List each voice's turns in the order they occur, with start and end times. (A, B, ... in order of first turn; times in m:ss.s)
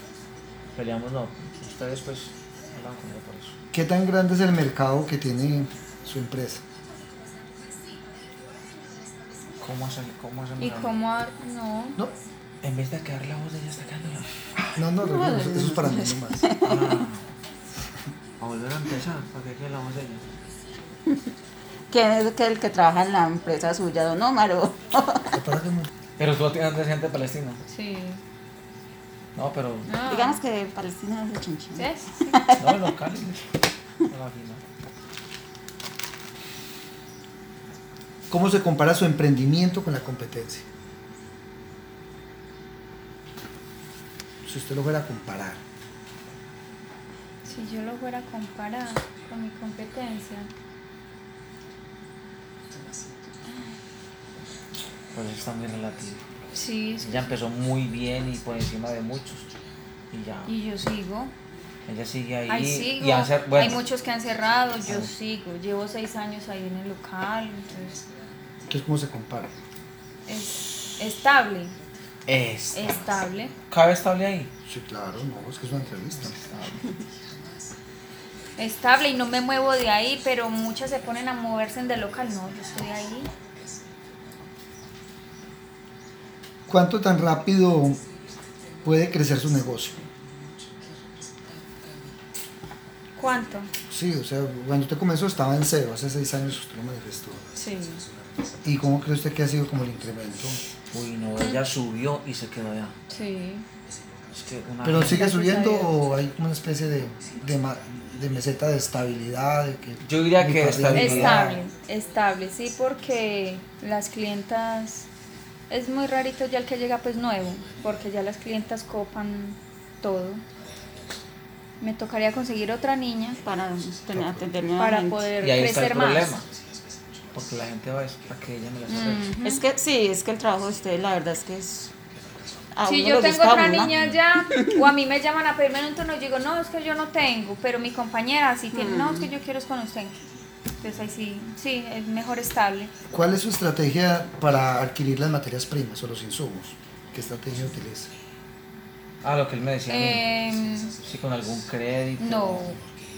0:00.7-0:03.5 A
0:03.7-0:06.6 B
0:09.6-0:11.0 A
0:10.6-0:12.0 C
0:12.6-0:14.8 A
0:14.7-0:16.5 B
0:15.0-0:16.9 D
0:16.6-0:17.3 A
0:18.4-0:20.2 A
0:21.9-0:25.4 D
0:25.3-0:25.9 B
0:26.2-0:27.6 A
0:27.7-0:28.2 C
0:29.3-0:29.9 A
0:29.9-0:30.4 C
0:30.0-0:32.9 D
0:31.7-0:32.4 C
0:32.6-0:33.5 A
0:34.0-0:34.6 A
0:38.3-0:40.6 B
0:44.4-0:45.6 B
0:47.4-0:50.5 C
0:55.1-0:56.2 A
0:56.5-0:57.3 C
0:57.0-0:59.5 A
1:00.1-1:00.5 A
1:00.4-1:01.3 C
1:01.8-1:03.8 A
1:02.5-1:08.0 C
1:04.8-1:05.1 A
1:08.7-1:09.5 B
1:10.3-1:11.8 C
1:12.2-1:13.1 A
1:12.7-1:13.5 C
1:13.7-1:14.5 A
1:14.6-1:16.3 B
1:16.3-1:17.0 A
1:18.6-1:23.3 C
1:26.7-1:28.0 B
1:28.8-1:30.0 B
1:33.2-1:33.7 C
1:33.9-1:37.4 B
1:37.6-1:38.0 C
1:38.6-1:40.6 B
1:40.9-1:42.9 A
1:43.1-1:43.6 C
1:44.3-1:45.2 A
1:44.8-1:51.5 B
1:45.0-1:45.9 C
1:50.0-1:51.6 A
1:50.9-1:55.1 C
1:55.7-2:00.4 C
2:01.8-2:03.4 C
2:03.4-2:05.3 D
2:04.8-2:06.3 C
2:05.4-2:06.4 A
2:07.3-2:09.4 A
2:08.9-2:09.6 C
2:09.4-2:11.9 D
2:12.7-2:13.9 D
2:12.8-2:20.3 C
2:13.8-2:14.2 A
2:14.5-2:14.8 D
2:18.7-2:19.2 D
2:20.8-2:22.9 C
2:23.1-2:28.1 B
2:29.2-2:30.3 A
2:29.9-2:31.0 C
2:31.0-2:32.8 A
2:32.2-2:32.8 C